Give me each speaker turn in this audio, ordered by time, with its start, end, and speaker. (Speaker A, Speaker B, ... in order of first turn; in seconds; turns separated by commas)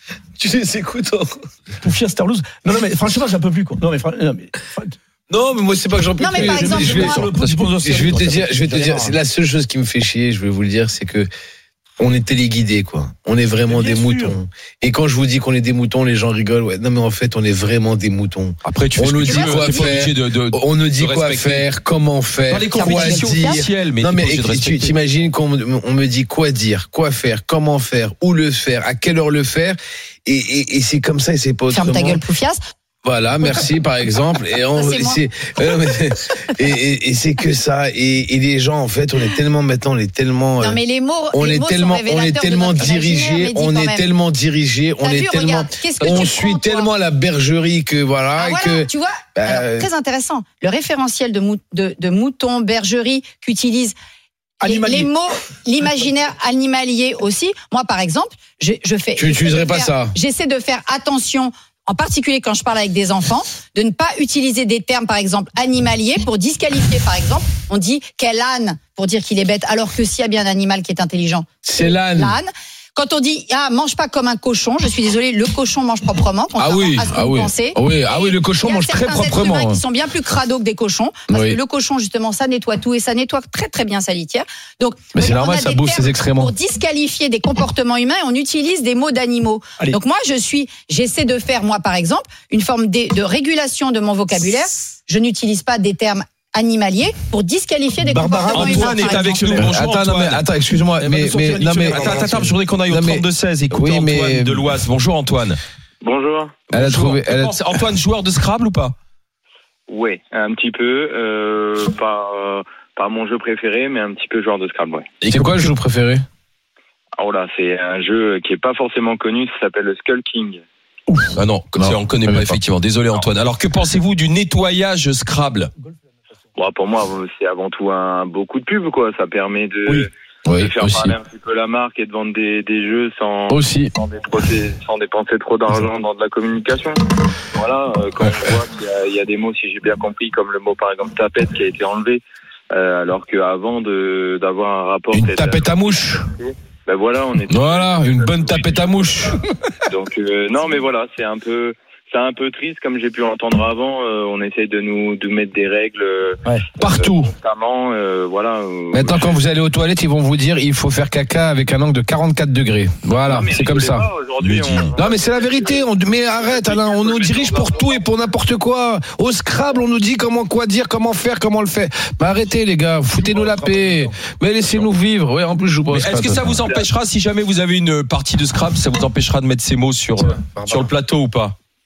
Speaker A: 0.4-1.3, Speaker B: 1.8-5.0, Speaker A: 5.3-11.3, Speaker C: 6.2-7.3, Speaker B: 6.3-9.2, Speaker A: 12.0-32.2, Speaker B: 13.7-14.4, Speaker D: 18.6-21.7, Speaker C: 19.3-20.0, Speaker D: 22.5-25.0, Speaker C: 22.7-23.6, Speaker C: 31.7-32.6, Speaker A: 33.0-40.8, Speaker C: 33.4-33.7, Speaker C: 34.7-35.2, Speaker C: 40.6-44.1, Speaker A: 41.3-49.9, Speaker C: 45.0-46.9, Speaker D: 46.0-46.3, Speaker C: 48.4-54.0, Speaker B: 54.6-55.1, Speaker C: 54.6-99.7, Speaker A: 59.2-60.1, Speaker A: 71.6-72.4, Speaker A: 76.6-79.8, Speaker A: 81.3-81.6, Speaker A: 85.2-86.5, Speaker B: 98.0-99.5, Speaker D: 98.5-100.5, Speaker A: 99.5-104.7, Speaker B: 101.0-102.6, Speaker D: 101.8-105.6, Speaker E: 106.0-106.6, Speaker D: 106.7-108.9, Speaker A: 106.7-107.6, Speaker E: 109.9-115.1, Speaker D: 115.2-115.7, Speaker A: 115.3-116.2, Speaker E: 117.2-120.6, Speaker D: 121.3-125.7, Speaker A: 121.8-122.6, Speaker E: 126.6-130.1, Speaker A: 130.5-131.1, Speaker E: 130.6-137.0, Speaker A: 133.5-133.9, Speaker E: 137.6-142.2, Speaker E: 142.7-149.1, Speaker A: 145.1-146.3, Speaker A: 147.5-149.5, Speaker E: 149.9-159.4, Speaker A: 156.8-157.3, Speaker A: 158.9-164.1, Speaker E: 163.3-165.8, Speaker D: 164.4-164.9, Speaker A: 164.8-176.6, Speaker E: 166.4-167.7, Speaker B: 173.1-174.9, Speaker D: 175.9-181.6